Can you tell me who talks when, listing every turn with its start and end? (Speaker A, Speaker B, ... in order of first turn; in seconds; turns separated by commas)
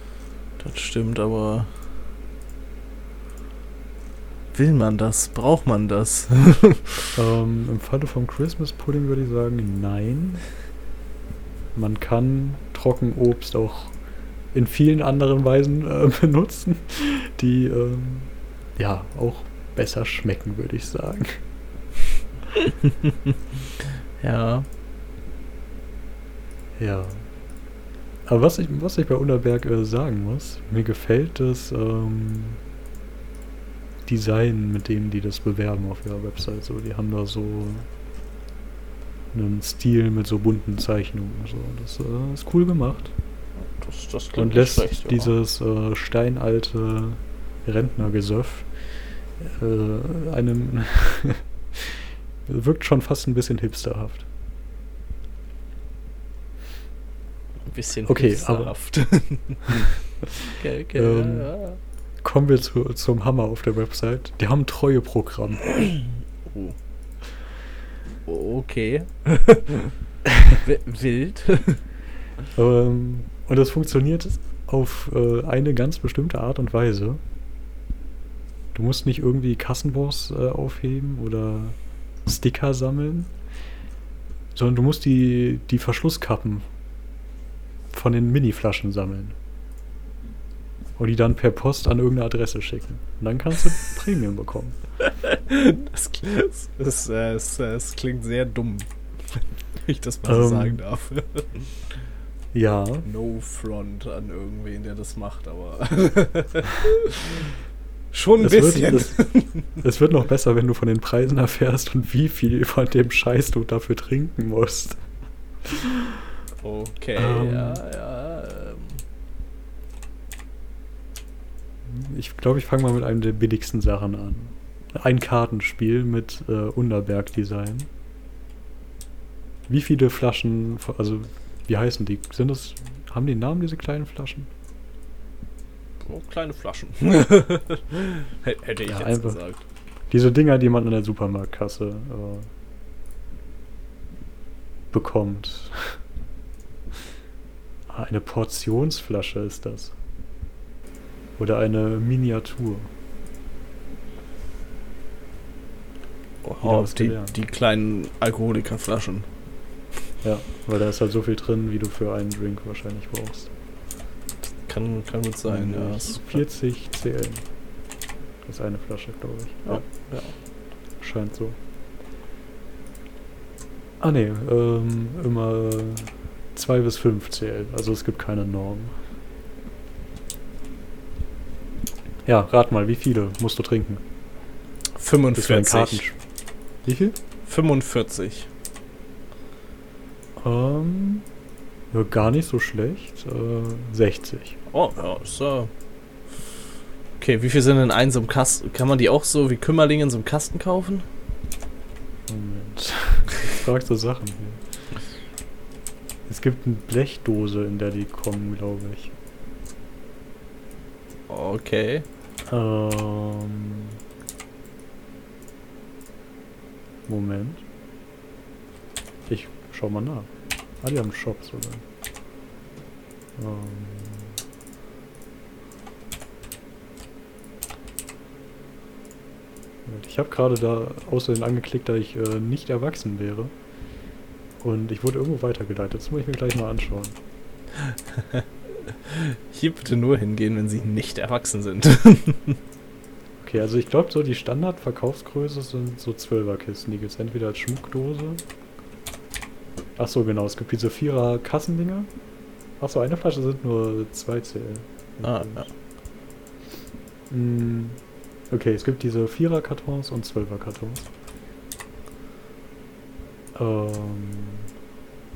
Speaker A: 0.6-1.7, Speaker A: 4.5-6.8, Speaker B: 7.1-10.4, Speaker B: 11.7-13.9, Speaker B: 14.5-21.4, Speaker A: 24.2-24.6, Speaker B: 26.8-27.3, Speaker B: 28.2-32.6, Speaker B: 34.0-37.9, Speaker B: 39.3-43.1, Speaker A: 43.8-45.3, Speaker B: 44.4-48.7, Speaker B: 49.4-54.2, Speaker A: 57.7-59.9, Speaker B: 58.0-58.8, Speaker B: 59.6-61.5, Speaker A: 60.5-61.8, Speaker B: 62.2-65.8, Speaker A: 66.4-66.8, Speaker A: 68.2-69.9, Speaker A: 70.5-71.8, Speaker B: 72.5-77.2, Speaker B: 78.7-83.3, Speaker B: 84.5-86.7, Speaker B: 87.9-89.3, Speaker B: 91.0-94.8, Speaker A: 95.0-101.7, Speaker B: 100.2-100.8, Speaker B: 102.5-103.1, Speaker A: 103.0-107.5, Speaker A: 108.1-109.6, Speaker B: 108.4-115.0, Speaker B: 115.6-116.2, Speaker A: 116.6-119.0, Speaker B: 117.2-117.8, Speaker B: 121.8-127.9, Speaker B: 129.7-134.5, Speaker A: 136.0-139.6, Speaker B: 138.8-139.4, Speaker B: 140.1-142.5, Speaker B: 144.9-146.0, Speaker B: 147.9-149.9, Speaker B: 151.4-152.9, Speaker A: 156.4-159.2, Speaker B: 156.6-157.3, Speaker B: 160.2-163.5, Speaker A: 164.6-166.4, Speaker B: 165.5-167.4, Speaker B: 168.4-169.8, Speaker A: 169.7-170.3, Speaker B: 171.0-171.6, Speaker B: 174.0-179.0, Speaker B: 182.2-184.0, Speaker A: 185.0-186.0, Speaker B: 185.3-186.2, Speaker B: 186.8-187.2, Speaker A: 187.4-188.5, Speaker B: 190.4-191.2, Speaker B: 191.9-194.6, Speaker A: 194.7-195.7, Speaker A: 197.2-201.1, Speaker B: 202.3-204.7, Speaker B: 206.3-209.1, Speaker A: 211.3-212.0, Speaker B: 212.5-214.0, Speaker B: 217.1-217.6, Speaker B: 219.3-220.3, Speaker B: 220.8-221.8, Speaker B: 223.3-224.4, Speaker B: 229.8-233.5, Speaker B: 234.6-237.2, Speaker A: 237.8-242.6, Speaker B: 243.4-248.4, Speaker B: 249.9-252.1, Speaker B: 252.8-255.6, Speaker A: 255.2-255.7, Speaker B: 257.3-261.1, Speaker B: 263.5-264.7